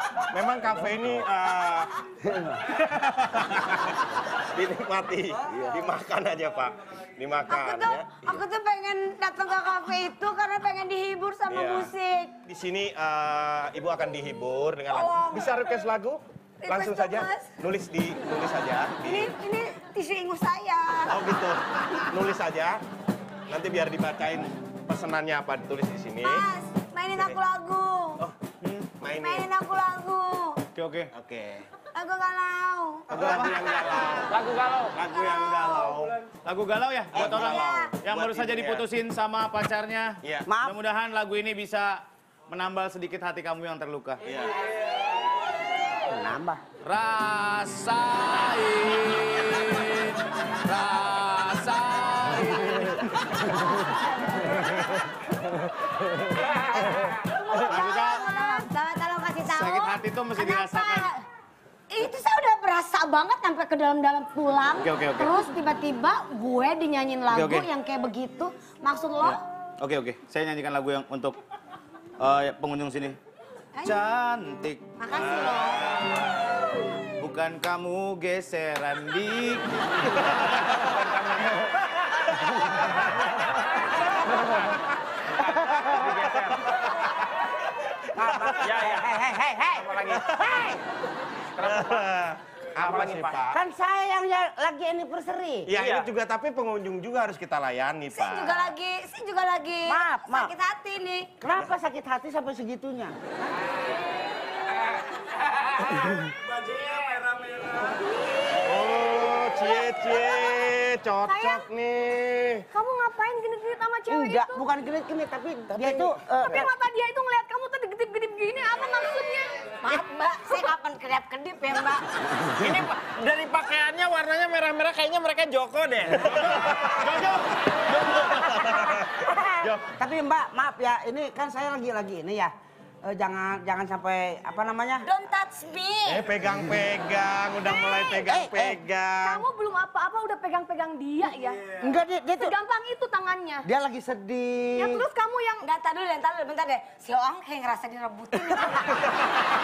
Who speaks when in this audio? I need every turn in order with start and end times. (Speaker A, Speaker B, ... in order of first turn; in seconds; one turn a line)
Speaker A: 0.3-2.0
Speaker B: 2.2-2.6
Speaker A: 2.7-8.5
Speaker C: 7.5-12.3
Speaker A: 11.4-19.4
Speaker C: 14.9-15.9
Speaker C: 16.6-17.6
Speaker C: 19.0-21.3
Speaker A: 21.1-22.8
Speaker A: 23.5-26.5
Speaker C: 26.2-28.2
Speaker A: 27.1-27.4
Speaker D: 28.6-28.9
Speaker A: 29.0-29.6
Speaker C: 29.1-30.6
Speaker D: 30.8-31.1
Speaker A: 31.1-31.7
Speaker C: 31.9-34.2
Speaker A: 33.1-34.4
Speaker D: 33.1-33.7
Speaker E: 34.2-35.0
Speaker A: 34.9-36.2
Speaker C: 35.0-36.0
Speaker D: 36.4-44.2
Speaker A: 37.1-38.9
Speaker C: 37.2-37.9
Speaker A: 40.2-40.5
Speaker B: 40.5-40.8
Speaker A: 44.3-44.5
Speaker B: 46.1-46.6
Speaker D: 46.8-53.1
Speaker C: 57.4-61.2
Speaker D: 57.7-58.6
Speaker D: 59.4-61.1
Speaker C: 61.9-69.4
Speaker D: 64.8-65.5
Speaker D: 67.3-67.7
Speaker D: 69.2-71.4
Speaker D: 72.2-73.2
Speaker C: 73.8-74.0
Speaker D: 73.8-75.3
Speaker C: 75.0-76.0
Speaker A: 75.2-75.8
Speaker D: 77.2-81.4
Speaker E: 80.6-81.7
Speaker A: 82.3-84.3
Speaker E: 83.6-86.7
Speaker B: 85.5-85.8
Speaker A: 85.6-87.1
Speaker A: 87.7-89.2
Speaker B: 88.1-90.8
Speaker E: 88.5-90.4
Speaker A: 89.8-90.8
Speaker E: 91.6-92.1
Speaker A: 91.6-93.6
Speaker E: 92.8-93.5
Speaker B: 93.5-95.7
Speaker A: 95.7-98.8
Speaker E: 95.8-96.1
Speaker C: 98.1-101.3
Speaker B: 99.8-100.6
Speaker B: 101.4-103.2
Speaker D: 106.7-107.2
Speaker A: 108.6-112.7
Speaker F: 109.7-110.6
Speaker F: 111.3-111.7
Speaker F: 112.7-114.6
Speaker B: 114.1-116.7
Speaker F: 116.4-120.0
Speaker C: 119.8-122.0
Speaker E: 122.6-126.9
Speaker A: 126.2-127.2
Speaker D: 126.4-128.6
Speaker A: 128.0-129.3
Speaker D: 129.6-129.9
Speaker B: 130.0-132.5
Speaker B: 133.1-135.1
Speaker C: 135.1-136.2
Speaker A: 136.0-139.4
Speaker F: 137.6-138.3
Speaker B: 138.3-138.8
Speaker F: 139.2-141.8
Speaker B: 141.8-142.5
Speaker F: 142.4-143.7
Speaker B: 143.6-145.1
Speaker F: 144.8-145.7
Speaker C: 145.6-149.0